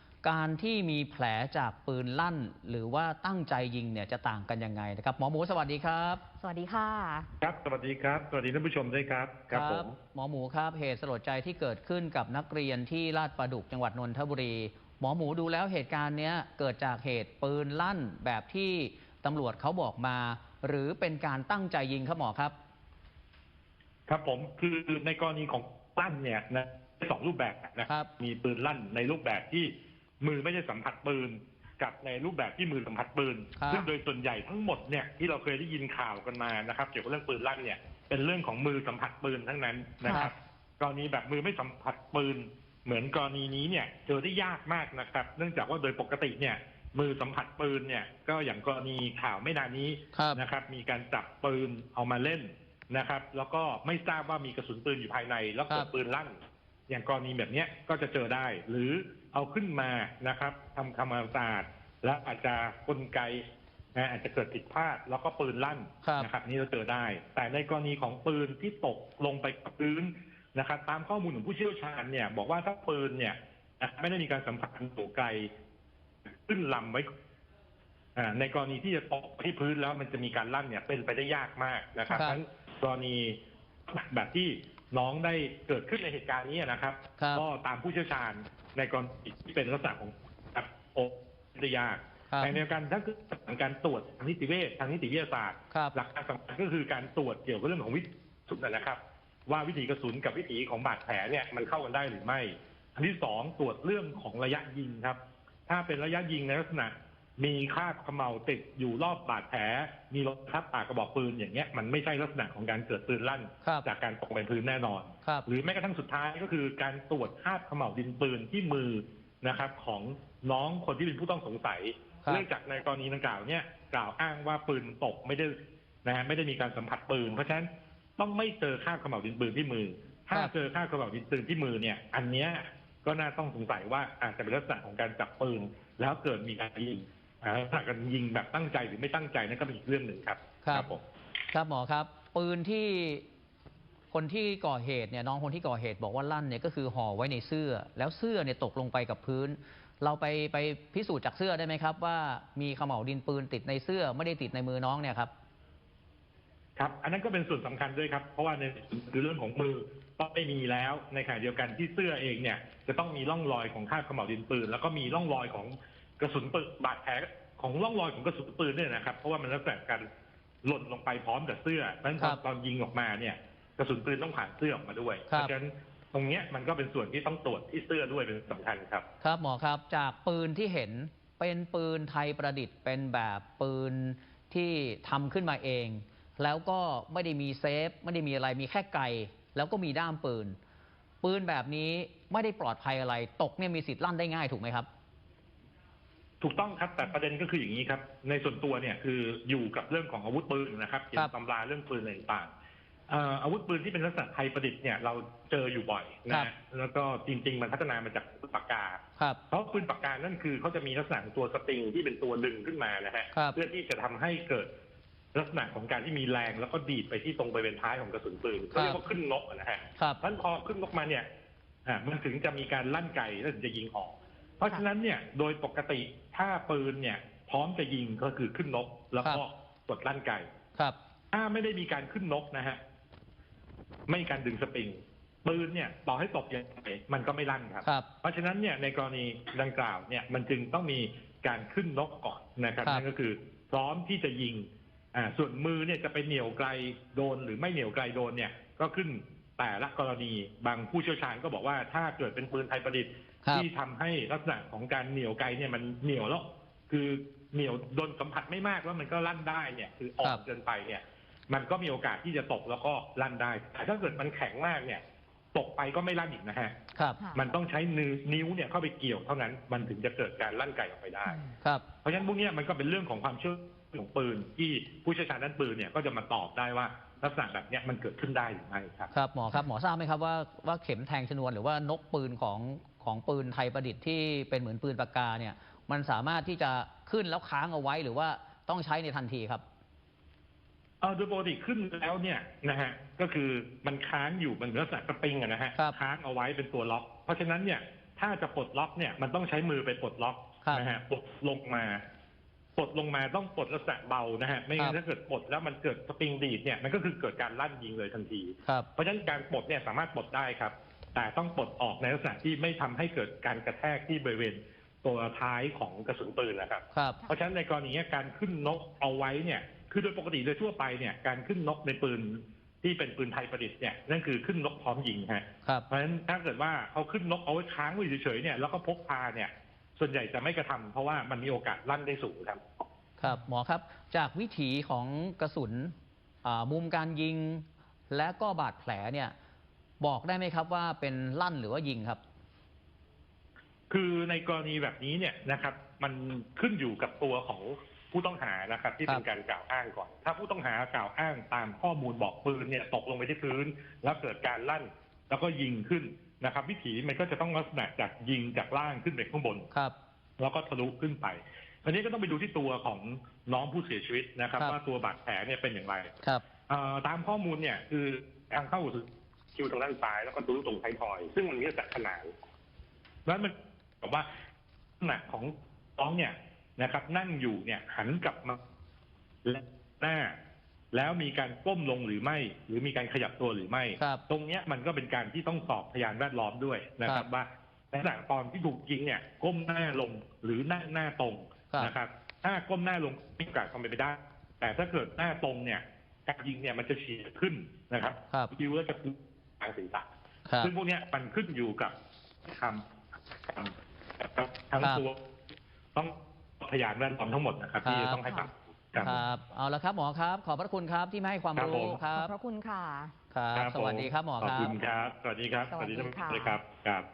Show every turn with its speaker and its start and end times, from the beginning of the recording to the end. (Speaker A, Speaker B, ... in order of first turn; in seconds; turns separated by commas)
Speaker A: 0.2-6.2, Speaker B: 6.4-7.3, Speaker C: 7.4-9.9, Speaker A: 9.5-22.5, Speaker C: 24.1-63.4, Speaker A: 33.6-33.9, Speaker B: 40.0-40.3, Speaker A: 50.1-50.4, Speaker C: 63.9-75.5, Speaker A: 66.0-66.3, Speaker C: 76.3-77.1, Speaker C: 78.2-141.0, Speaker A: 82.1-82.4, Speaker A: 87.2-87.4, Speaker A: 92.3-92.6, Speaker A: 140.6-140.9, Speaker A: 141.5-143.2, Speaker A: 144.1-155.3, Speaker C: 156.8-170.1, Speaker C: 170.6-179.0, Speaker A: 179.2-190.6, Speaker A: 191.2-194.9, Speaker C: 196.4-202.5, Speaker C: 203.1-214.7, Speaker C: 215.3-221.2, Speaker A: 218.7-219.0, Speaker C: 221.8-230.5, Speaker C: 231.3-232.8, Speaker C: 234.1-265.0, Speaker C: 265.5-266.8, Speaker A: 266.9-267.2, Speaker B: 267.2-267.5, Speaker C: 267.3-271.4, Speaker C: 272.0-279.1, Speaker A: 279.1-289.6, Speaker C: 291.0-302.0, Speaker C: 302.8-332.6, Speaker A: 316.9-317.2, Speaker A: 333.2-339.3, Speaker A: 340.0-342.2, Speaker C: 343.9-359.7, Speaker C: 360.4-366.1, Speaker C: 366.7-372.3, Speaker C: 373.2-374.3, Speaker C: 375.0-378.6, Speaker C: 379.4-380.3, Speaker C: 380.9-400.1, Speaker A: 400.5-400.7, Speaker C: 400.6-401.9, Speaker C: 402.4-402.8, Speaker C: 403.5-405.2, Speaker C: 405.9-409.1, Speaker A: 407.8-408.2, Speaker A: 409.0-412.3, Speaker C: 411.6-412.0, Speaker B: 412.1-413.1, Speaker A: 413.3-414.7, Speaker C: 413.5-417.1, Speaker B: 415.7-416.6